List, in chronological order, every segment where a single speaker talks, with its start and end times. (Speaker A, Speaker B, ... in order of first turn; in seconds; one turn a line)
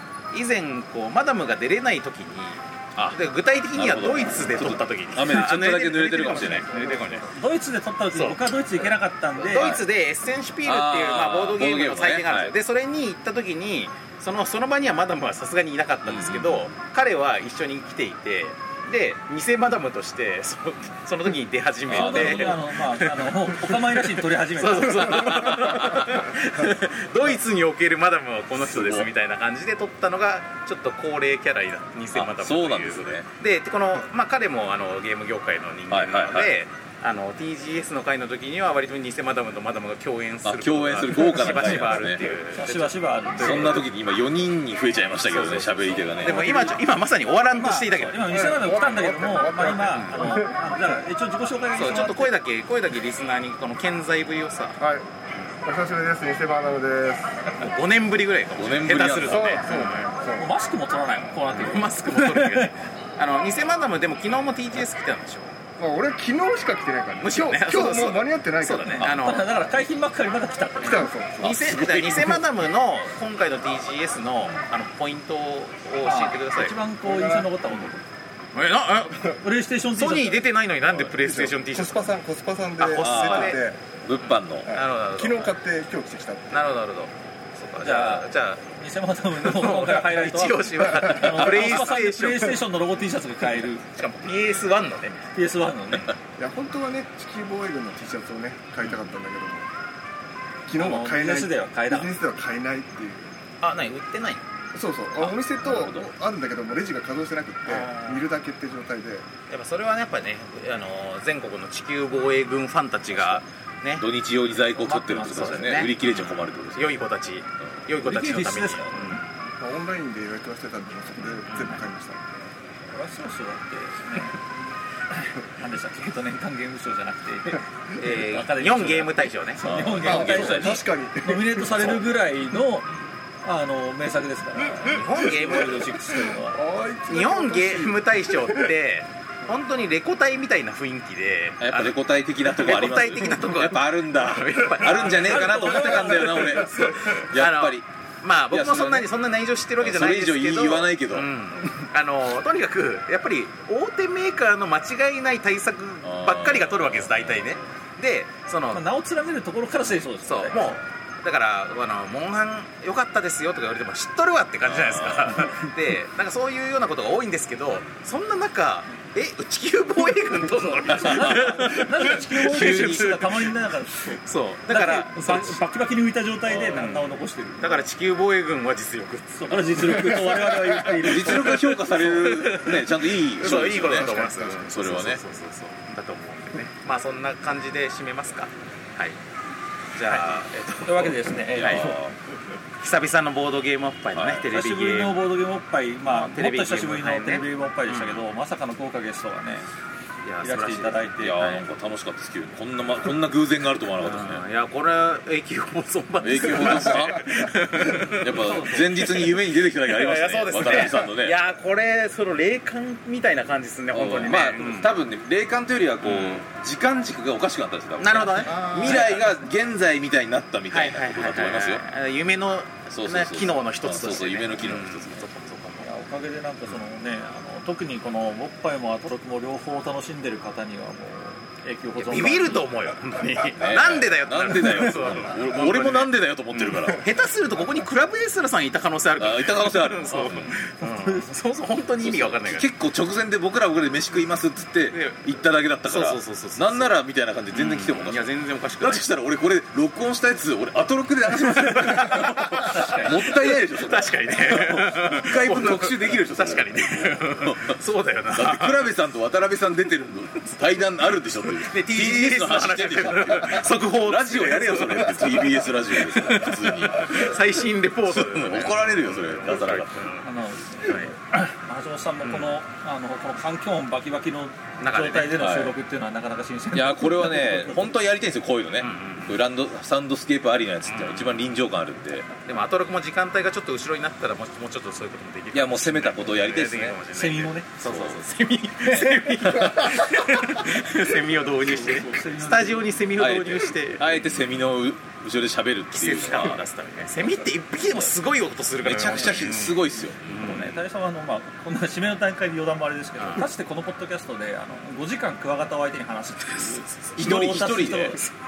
Speaker A: 0.3-7.3
Speaker B: 3.0-6.7
Speaker C: 6.5-7.3
Speaker D: 6.8-9.7
Speaker A: 8.1-43.9
Speaker B: 9.5-9.8
Speaker B: 10.6-12.6
Speaker B: 16.0-16.8
Speaker B: 21.9-22.7
Speaker D: 21.9-25.6
Speaker B: 25.0-26.3
Speaker B: 28.6-29.1
Speaker B: 32.1-33.3
Speaker B: 35.9-36.5
Speaker B: 40.4-42.3
Speaker D: 42.5-43.9
Speaker B: 43.4-46.7
Speaker A: 45.2-48.5
Speaker D: 46.2-46.8
Speaker D: 47.6-52.3
Speaker C: 48.2-50.5
Speaker A: 49.9-50.2
Speaker A: 51.8-54.8
Speaker C: 54.8-55.1
Speaker C: 55.6-57.4
Speaker A: 57.5-60.1
Speaker B: 58.6-59.6
Speaker C: 59.2-60.5
Speaker D: 60.4-62.7
Speaker A: 61.5-65.6
Speaker C: 65.8-69.0
Speaker A: 67.2-69.5
Speaker D: 68.9-71.1
Speaker B: 69.0-69.3
Speaker C: 70.8-71.9
Speaker A: 71.4-76.8
Speaker B: 71.5-72.3
Speaker D: 76.0-78.0
Speaker C: 77.0-77.5
Speaker A: 78.5-79.4
Speaker D: 79.4-80.5
Speaker A: 79.9-82.1
Speaker B: 80.8-81.1
Speaker C: 81.2-83.8
Speaker A: 82.8-83.6
Speaker B: 83.0-84.8
Speaker A: 84.2-85.5
Speaker C: 84.6-86.8
Speaker A: 86.5-88.6
Speaker D: 87.8-93.8
Speaker A: 89.4-92.6
Speaker C: 90.8-91.3
Speaker A: 93.8-95.3
Speaker D: 95.3-96.2
Speaker C: 96.4-99.7
Speaker C: 100.7-103.3
Speaker D: 100.8-102.1
Speaker A: 103.6-104.4
Speaker C: 104.7-109.3
Speaker B: 105.6-106.1
Speaker A: 107.7-108.2
Speaker A: 109.5-114.1
Speaker B: 113.1-113.4
Speaker B: 114.0-117.0
Speaker D: 114.8-115.8
Speaker A: 115.3-119.3
Speaker D: 118.0-119.2
Speaker C: 119.6-122.2
Speaker A: 121.5-121.8
Speaker D: 122.9-124.4
Speaker D: 125.1-132.9
Speaker A: 128.0-129.6
Speaker B: 129.6-130.8
Speaker C: 130.0-132.0
Speaker D: 133.4-136.6
Speaker C: 134.8-138.7
Speaker A: 134.8-135.8
Speaker A: 137.1-158.8
Speaker B: 141.6-147.9
Speaker D: 144.9-146.5
Speaker C: 145.8-147.1
Speaker B: 148.5-149.1
Speaker B: 149.8-151.3
Speaker B: 156.0-157.7
Speaker D: 158.7-160.8
Speaker A: 160.2-175.6
Speaker B: 164.7-165.6
Speaker D: 170.8-177.8
Speaker B: 171.1-171.6
Speaker B: 172.4-173.1
Speaker B: 176.5-176.9
Speaker A: 176.7-179.8
Speaker D: 179.4-182.5
Speaker C: 179.8-181.0
Speaker B: 180.9-185.2
Speaker A: 181.7-189.2
Speaker A: 189.9-191.9
Speaker D: 190.8-192.0
Speaker B: 191.5-192.2
Speaker A: 192.8-195.2
Speaker B: 194.1-194.5
Speaker D: 194.5-199.7
Speaker A: 196.1-198.2
Speaker A: 200.2-201.7
Speaker D: 200.4-201.4
Speaker B: 201.2-204.4
Speaker A: 204.0-215.0
Speaker B: 206.2-207.3
Speaker B: 208.0-211.4
Speaker D: 208.4-208.8
Speaker B: 213.9-221.8
Speaker A: 216.0-216.5
Speaker A: 218.0-219.4
Speaker A: 220.7-225.9
Speaker B: 222.9-225.3
Speaker D: 225.8-232.8
Speaker A: 232.0-242.7
Speaker B: 233.5-237.0
Speaker D: 234.6-234.9
Speaker B: 239.2-240.6
Speaker D: 240.8-241.3
Speaker B: 242.0-267.4
Speaker A: 244.9-245.2
Speaker A: 245.8-247.0
Speaker A: 247.5-249.0
Speaker A: 251.4-258.9
Speaker A: 261.5-270.3
Speaker B: 268.1-270.2
Speaker D: 270.2-278.0
Speaker A: 270.9-271.1
Speaker A: 272.2-272.5
Speaker A: 274.8-275.5
Speaker B: 275.4-275.8
Speaker B: 276.7-282.3
Speaker A: 278.8-279.4
Speaker A: 280.9-281.4
Speaker A: 282.5-294.6
Speaker B: 285.5-287.0
Speaker D: 287.1-287.7
Speaker B: 287.8-288.2
Speaker D: 291.6-292.9
Speaker B: 293.2-296.6
Speaker A: 295.9-300.8
Speaker B: 298.8-300.4
Speaker D: 300.3-308.3
Speaker A: 303.2-303.5
Speaker A: 306.5-307.5
Speaker B: 307.2-308.2